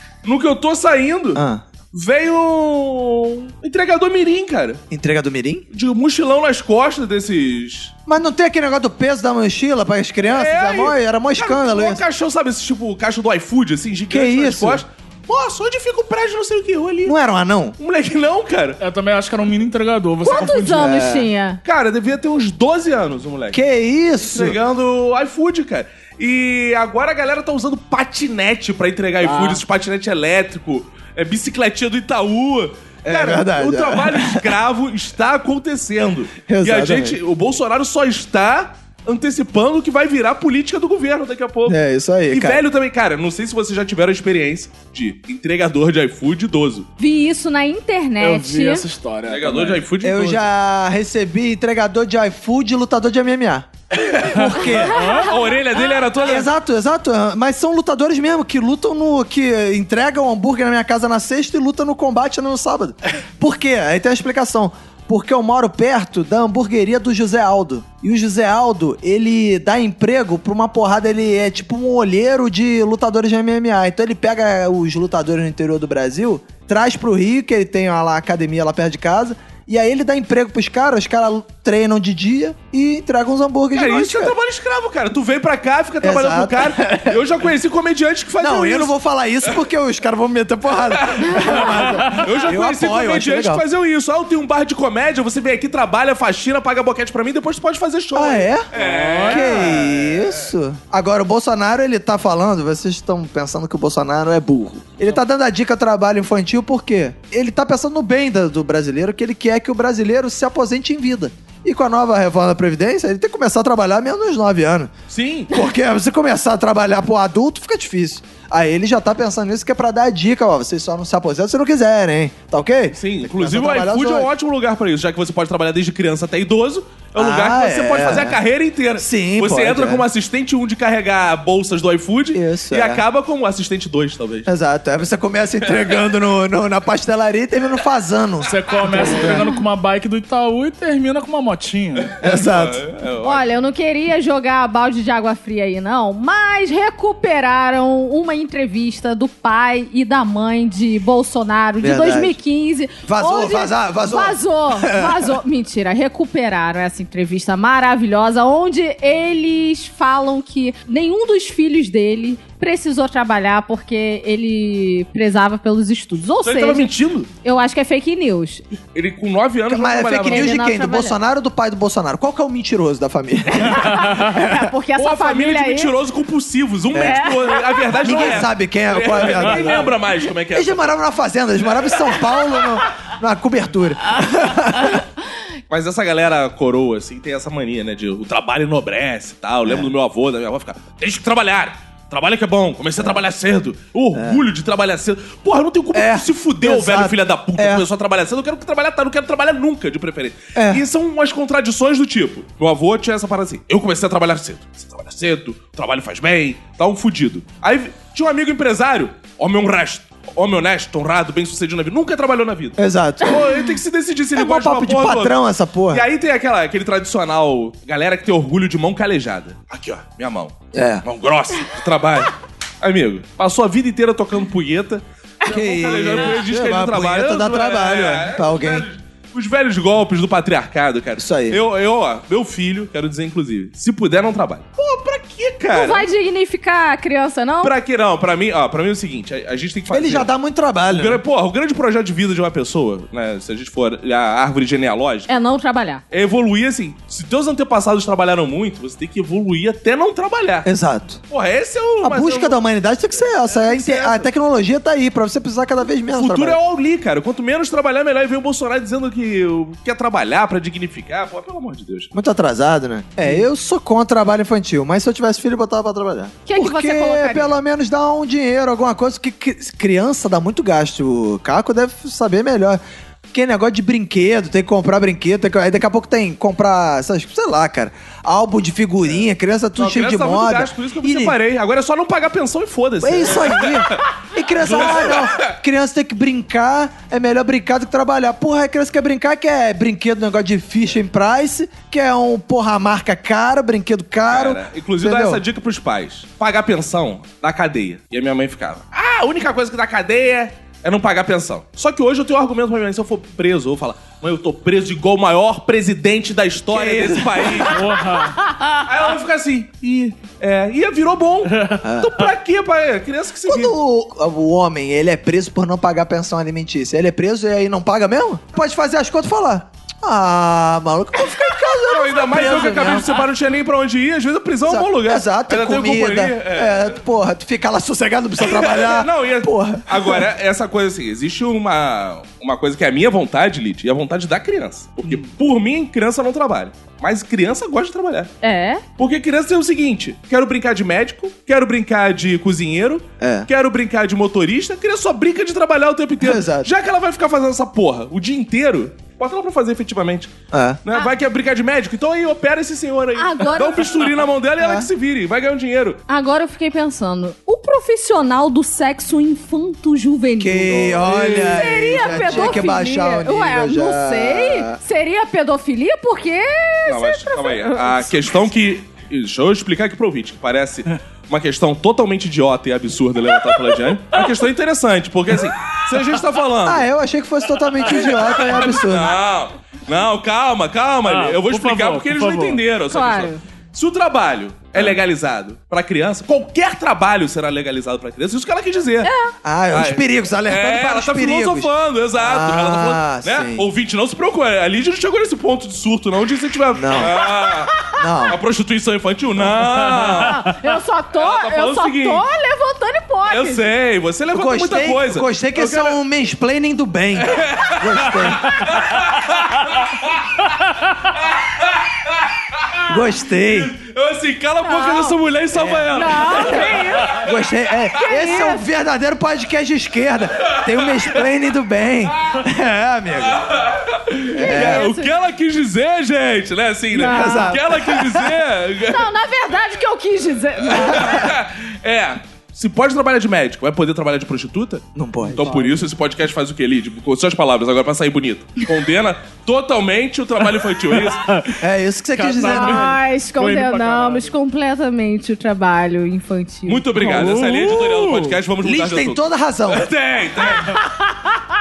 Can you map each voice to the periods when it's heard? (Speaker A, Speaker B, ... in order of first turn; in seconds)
Speaker A: 0.2-4.8, 5.7-7.9, 10.2-17.1, 17.8-18.8, 21.6-23.6, 24.2-41.8, 42.3-46.9, 49.3-50.4, 53.9-56.5, 83.7-88.9, 90.9-100.5, 115.1-115.6, 122.9-134.5, 139.0-139.3, 142.0-143.4, 166.4-167.3, 168.9-170.6, 175.0-181.0, 185.7-215.3, 215.9-236.1, 237.6-240.3, 240.9-245.3, 246.1-250.7, 251.3-252.6, 253.5-254.3, 256.1-262.1, 279.8-284.0, 284.6-285.5, 294.3-307.9, 308.8-313.8, 321.8-327.0, 328.4-338.3, 339.0-356.0, 360.9-362.6, 366.9-376.9, 377.9-389.1, 389.7-400.5, 401.1-402.2, 403.3-406.0, 407.2-410.5, 411.2-412.8, 413.4-417.3, 420.5-420.9, 423.3-429.1, 430.7-441.3, 446.7-450.8
Speaker B: 1.3-1.6, 4.9-5.7, 8.1-12.0, 14.1-14.8, 17.1-17.8, 20.7-21.3, 23.5-24.6, 33.0-34.5, 36.5-37.2, 41.7-42.6, 50.0-53.7, 54.2-55.0, 56.2-84.3, 86.0-87.2, 88.4-93.6, 98.2-98.7, 99.2-114.9, 115.5-124.3, 127.2-128.4, 129.0-130.1, 132.3-133.0, 134.5-139.5, 142.2-142.8, 151.8-152.4, 153.0-155.2, 169.7-174.7, 176.9-177.3, 178.0-180.0, 180.5-185.0, 189.6-189.9, 194.1-194.4, 195.9-197.9, 200.6-200.8, 212.8-213.6, 214.3-216.1, 220.7-221.1, 225.4-228.9, 231.2-231.6, 239.9-241.2, 250.6-251.2, 252.0-256.6, 262.1-272.8, 273.3-281.4, 283.0-295.4, 306.7-307.7, 311.8-312.2, 313.4-323.1, 324.7-330.2, 343.2-343.5, 346.2-346.7, 350.5-350.8, 354.6-354.9, 360.4-364.8, 376.6-379.2, 389.4-393.7, 396.8-397.2, 397.9-398.4, 404.3-408.5, 412.9-413.8, 415.5-423.4, 424.4-424.9, 427.0-428.4, 434.9-435.7, 441.6-443.0, 448.6-449.9
Speaker C: 18.8-20.9, 29.2-29.6, 48.2-49.8, 54.4-55.4, 91.7-92.2, 98.7-99.9, 138.5-142.1, 307.7-308.5, 311.6-311.8, 381.1-382.6, 399.6-400.5, 435.4-435.8, 440.9-441.6, 442.1-444.3, 446.9-448.4
Speaker D: 20.2-21.6, 47.0-48.9, 54.9-56.0, 143.2-166.9, 167.4-168.6, 170.2-171.2, 173.7-175.9, 177.0-178.3, 235.7-237.7, 245.3-246.0, 266.5-267.6, 338.4-338.8, 353.1-354.0, 356.1-368.3, 382.9-383.4, 389.0-389.3, 397.4-398.0, 400.2-403.7, 414.6-415.2, 415.9-417.3, 418.0-418.6, 424.3-425.1, 426.9-427.6, 428.9-431.3, 442.4-447.1, 450.5-451.4